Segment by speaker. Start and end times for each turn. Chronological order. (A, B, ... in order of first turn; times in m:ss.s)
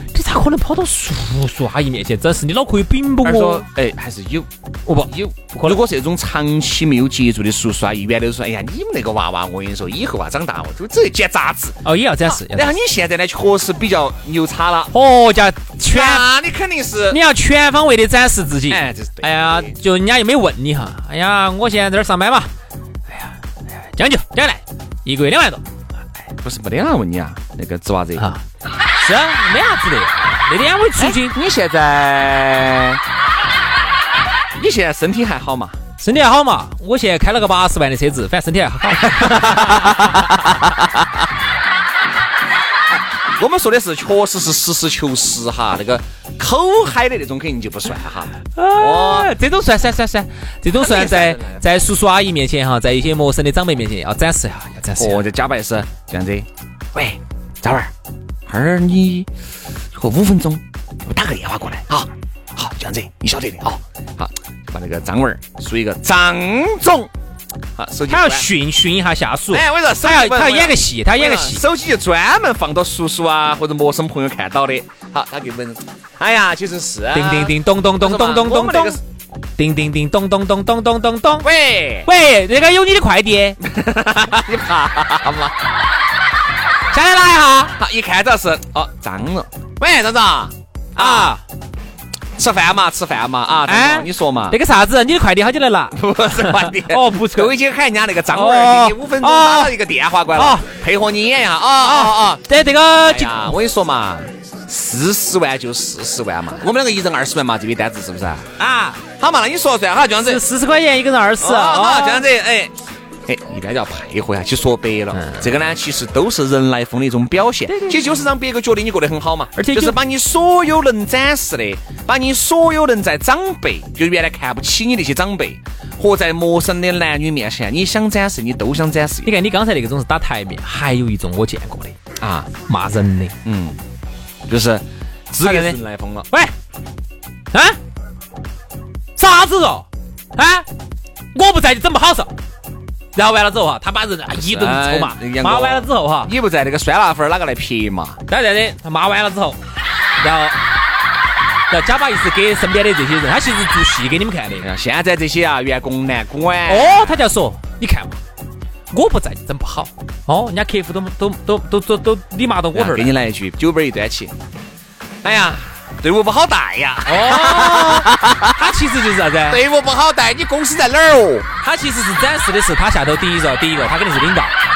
0:00.1-0:03.6 A
0:03.2-0:14.9 B
0:04.9-0:05.8 A
0:11.8-0:12.8 A
0:14.9-0:16.3 A
0:15.8-0:17.2 B
0:17.1-0:22.5 A
0:18.7-0:19.8 B
0:23.1-0:25.6 A
0:26.4-0:28.3 B
0:29.0-0:31.4 A
0:31.0-0:33.0 B
0:34.6-0:35.8 B
0:36.0-0:40.6 A
0:39.0-0:41.3 B
0:42.9-0:49.3 B
0:48.6-0:55.2 A
0:50.8-0:51.6 B
0:55.0-0:57.9 B
0:58.5-0:59.3 B
0:59.9-1:07.1 B
1:07.8-1:08.5 B
1:08.1-1:11.6 A
1:09.5-1:19.0 B
1:17.1-1:19.0 A
1:19.6-1:21.5 A
1:21.4-1:22.1 B
1:22.0-1:23.6 A
1:23.6-1:25.7 B
1:26.9-1:27.8 A
1:27.8-1:31.4 B
1:31.0-1:31.4 A
1:32.4-1:34.6 B
1:33.7-1:37.5 A
1:35.9-1:42.5 B
1:38.3-1:39.8 A
1:40.3-1:40.7 A
1:41.8-1:43.6 A
1:43.0-1:48.5 B
1:48.6-1:49.0 A
1:49.1-1:50.5 B
1:50.2-1:52.3 A
1:51.4-1:52.8 B
1:53.3-2:09.3 B
1:55.1-1:55.5 A
1:57.7-1:58.0 A
1:59.6-2:00.0 A
2:09.2-2:12.0 A
2:12.2-2:12.5 B
2:12.7-2:13.4 A
2:13.4-2:13.8 B
2:14.5-2:16.3 B
2:15.4-2:15.8 A
2:17.5-2:17.8 A
2:19.2-2:20.7 A
2:21.3-2:22.3 A
2:23.2-2:26.3 A
2:24.4-2:28.2 B
2:28.3-2:29.6 A
2:30.2-2:30.6 A
2:31.7-2:34.7 A
2:34.6-2:37.2 B
2:36.7-2:38.2 A
2:38.9-2:43.1 A
2:42.7-2:44.4 B
2:45.2-2:48.6 B
2:47.1-2:49.6 A
2:49.5-2:51.5 B
2:51.6-2:54.5 A